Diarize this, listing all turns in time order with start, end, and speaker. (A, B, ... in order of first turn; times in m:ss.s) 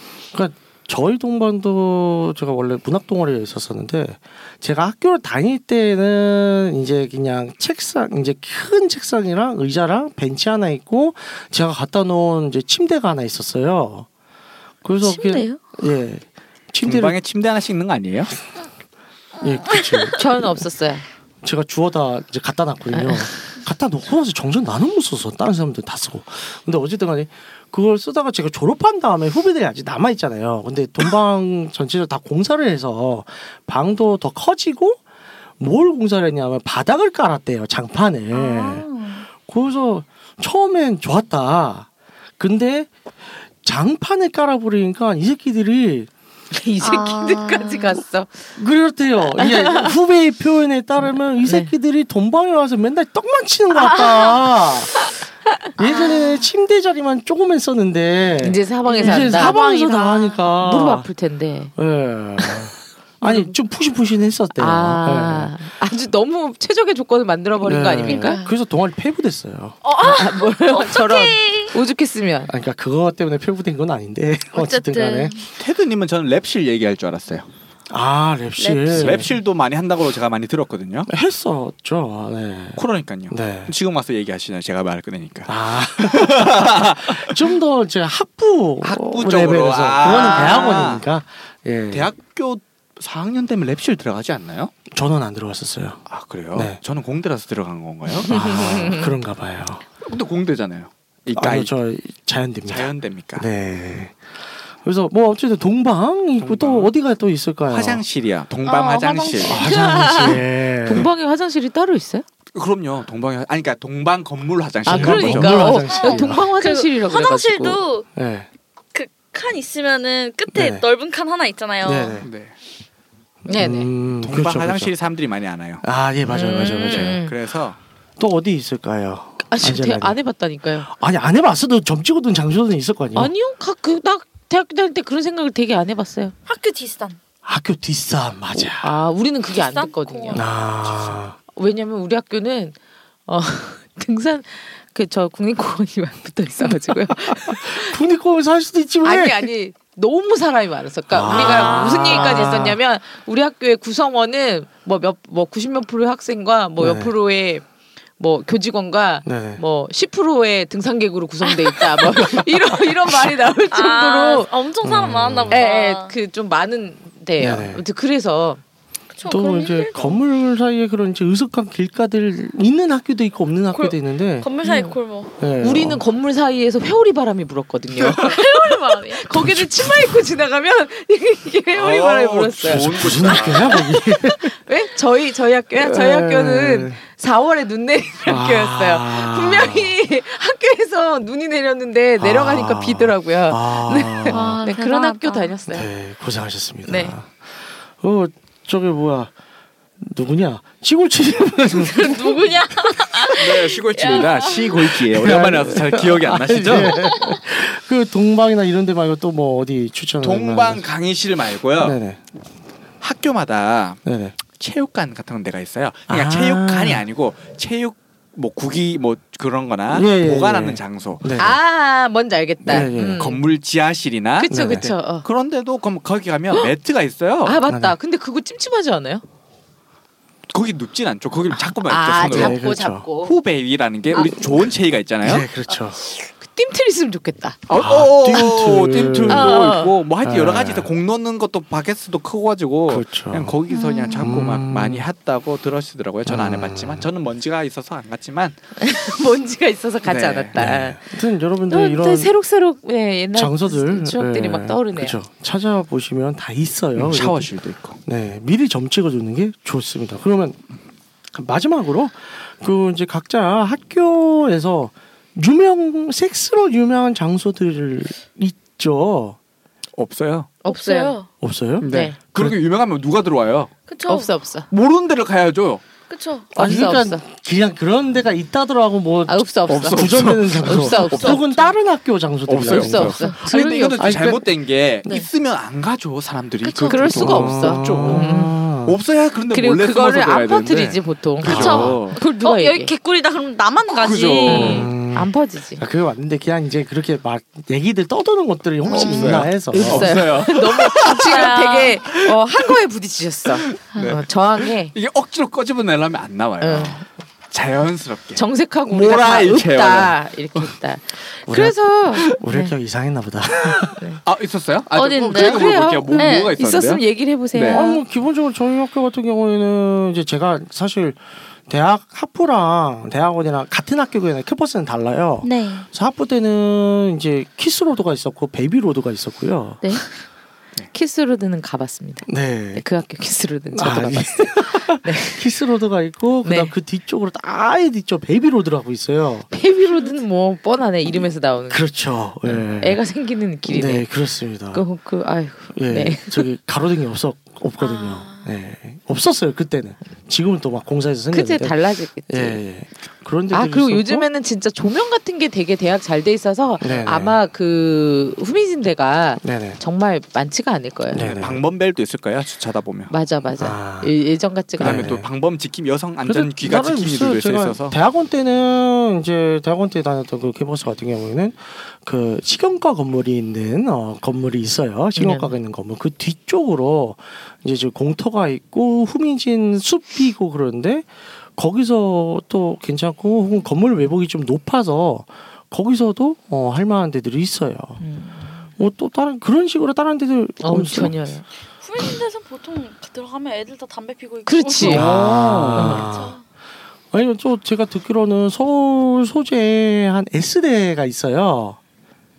0:00.3-0:14.1 A
0:14.8-0:17.1 A
0:15.0-0:15.6 B
0:16.8-0:18.3 C
0:19.4-0:20.3 A
0:20.2-0:21.0 D
0:21.4-0:35.0 A
0:22.9-0:23.3 D
0:35.6-0:38.8 A
0:38.3-0:39.3 B
0:39.4-0:41.9 A
0:42.4-0:42.9 A
0:43.6-0:46.1 A
0:46.5-0:48.4 D
0:46.8-0:48.0 B
0:48.6-0:55.0 A
0:49.4-0:49.9 D
0:51.4-0:51.7 D
0:53.7-0:54.3 B
0:55.8-1:01.1 A
0:55.8-0:56.4 B
0:58.4-1:01.7 D
0:58.9-0:59.7 B
1:01.8-1:05.5 A
1:03.2-1:03.5 D
1:04.6-1:08.4 D
1:07.6-1:09.8 A
1:08.1-1:08.5 B
1:09.8-1:11.8 B
1:10.0-1:12.5 D
1:12.5-1:15.4 A
1:14.5-1:15.4 B
1:15.6-1:17.5 C
1:17.9-1:19.3 A
1:18.6-1:19.3 B
1:18.9-1:21.1 C
1:21.1-1:23.7 A
1:22.8-1:27.5 C
1:25.4-1:32.1 A
1:28.8-1:31.0 C
1:31.9-1:34.7 C
1:34.9-1:36.0 A
1:36.1-1:38.4 C
1:36.5-1:36.8 A
1:38.3-1:39.1 D
1:38.3-1:39.8 A
1:40.0-1:41.7 C
1:41.3-1:44.2 A
1:42.6-1:43.5 C
1:44.8-1:48.0 A
1:46.4-1:46.9 C
1:47.7-1:49.7 C
1:48.6-1:50.4 B
1:49.4-1:51.1 A
1:50.2-1:52.2 D
1:52.5-1:55.7 C
1:54.8-1:56.5 A
1:54.8-1:57.8 D
1:55.6-1:58.1 B
1:58.1-1:58.5 A
1:58.9-2:02.2 B
2:00.5-2:00.8 A
2:01.8-2:02.3 A
2:02.2-2:02.5 C
2:03.5-2:03.9 D
2:03.5-2:04.9 A
2:04.2-2:05.8 C
2:05.8-2:07.2 A
2:06.3-2:07.3 D
2:06.6-2:07.8 C
2:08.2-2:10.2 A
2:09.4-2:10.9 D
2:10.8-2:13.3 A
2:13.1-2:16.3 D
2:16.4-2:17.2 B
2:17.4-2:18.9 A
2:18.5-2:20.5 D
2:19.5-2:20.5 B
2:20.3-2:21.4 A
2:20.8-2:21.1 C
2:21.5-2:22.8 D
2:23.3-2:28.0 D
2:26.8-2:29.5 A
2:29.0-2:37.6 D
2:31.1-2:32.8 A
2:31.2-2:32.6 B
2:36.8-2:37.1 A
2:38.2-2:44.5 D
2:39.2-2:39.6 A
2:41.6-2:42.4 B
2:43.7-2:46.1 B
2:44.8-2:45.6 A
2:45.5-2:48.6 D
2:47.4-2:47.8 A
2:49.1-2:50.2 B
2:49.2-2:54.5 A
2:53.7-2:55.3 B
2:54.6-2:55.0 D
2:55.4-2:56.0 A
2:55.6-3:15.9 D
2:58.0-2:59.2 B
2:59.3-3:00.2 A
3:01.7-3:03.9 C
3:02.6-3:04.6 A
3:05.8-3:07.0 A
3:08.2-3:09.9 A
3:12.2-3:14.5 A
3:14.3-3:15.5 B
3:15.7-3:17.5 A
3:16.9-3:17.2 D
3:18.0-3:19.3 A
3:20.0-3:22.5 A
3:21.8-3:24.9 B
3:23.3-3:27.0 C
3:25.0-3:30.8 A
3:27.0-3:27.4 B
3:30.2-3:32.0 C
3:31.8-3:32.2 A
3:33.0-3:34.0 C
3:34.0-3:34.3 A
3:34.5-3:41.2 C
3:36.1-3:37.0 A
3:39.9-3:41.6 A
3:41.3-3:43.4 D
3:42.6-3:43.2 A
3:42.6-3:47.6 C
3:44.4-3:45.2 D
3:44.5-3:44.9 A
3:47.4-3:49.2 D
3:47.7-3:47.9 A
3:50.5-3:52.6 C
3:51.5-3:53.3 D
3:52.3-3:53.1 A
3:53.2-3:55.5 C
3:54.1-3:54.4 D
3:55.2-3:56.0 A
3:56.0-3:57.6 D
3:57.7-4:08.6 C
3:57.7-3:59.6 A
3:59.3-3:59.9 D
4:00.2-4:00.9 A
4:02.9-4:03.6 A
4:03.7-4:04.3 B
4:04.2-4:05.0 A
4:06.2-4:07.0 A
4:08.8-4:11.0 D
4:10.0-4:10.6 C
4:10.5-4:12.3 A
4:11.7-4:15.2 D
4:13.3-4:17.5 A
4:17.0-4:18.0 C
4:18.0-4:20.6 A
4:21.3-4:29.4 A
4:30.0-4:30.5 C
4:30.6-4:31.2 D
4:30.6-4:31.3 B
4:31.4-4:32.6 A
4:31.8-4:32.2 D
4:31.8-4:33.7 C
4:33.9-4:34.3 B
4:34.1-4:34.7 D
4:34.7-4:35.8 C
4:36.1-4:36.5 B
4:36.5-4:37.2 D
4:36.5-4:44.5 A
4:39.3-4:41.4 D
4:39.7-4:41.4 C
4:41.0-4:41.7 B
4:42.5-4:52.2 C
4:42.6-4:43.8 D
4:43.2-4:44.1 B
4:46.6-4:47.3 B
4:46.9-4:48.6 D
4:47.1-4:49.0 A
4:49.5-4:52.9 D
4:51.4-4:52.0 A
4:51.5-4:54.9 B
4:53.9-4:54.9 C
4:54.5-4:55.8 D
4:54.5-5:00.2 A
4:58.9-4:59.4 B
4:58.9-5:01.5 C
4:59.7-5:04.9 D
5:01.0-5:02.0 B
5:03.5-5:10.7 C
5:06.6-5:07.0 D
5:08.4-5:12.7 D
5:11.4-5:14.0 A
5:13.9-5:14.2 D
5:14.2-5:17.0 C
5:14.9-5:16.5 B
5:15.2-5:18.0 D
5:17.5-5:17.8 C
5:17.7-5:29.8 A
5:25.4-5:25.9 B
5:30.9-5:35.4 D
5:32.3-5:32.8 A
5:33.7-5:39.5 A
5:36.4-5:36.7 D
5:39.5-5:41.9 D
5:41.7-5:43.0 A
5:42.4-5:44.1 D
5:43.7-5:44.8 A
5:44.7-5:46.5 D
5:45.7-5:54.3 A
5:47.8-5:48.5 B
5:51.3-5:52.6 D
5:53.5-6:01.3 D
5:56.8-5:57.4 A
5:59.4-5:59.8 A
6:01.1-6:01.6 A
6:01.2-6:03.1 C
6:03.1-6:05.1 D
6:03.6-6:04.1 A
6:04.8-6:05.3 A
6:04.8-6:08.0 C
6:06.2-6:21.0 A
6:15.2-6:15.5 D
6:21.6-6:28.0 A
6:28.0-6:28.6 D
6:28.8-6:31.3 A
6:30.6-6:31.4 D
6:31.8-6:35.1 B
6:34.4-6:35.1 D
6:34.8-6:36.0 C
6:34.8-6:36.4 A
6:35.7-6:36.1 D
6:35.8-6:36.4 B
6:37.1-6:41.8 A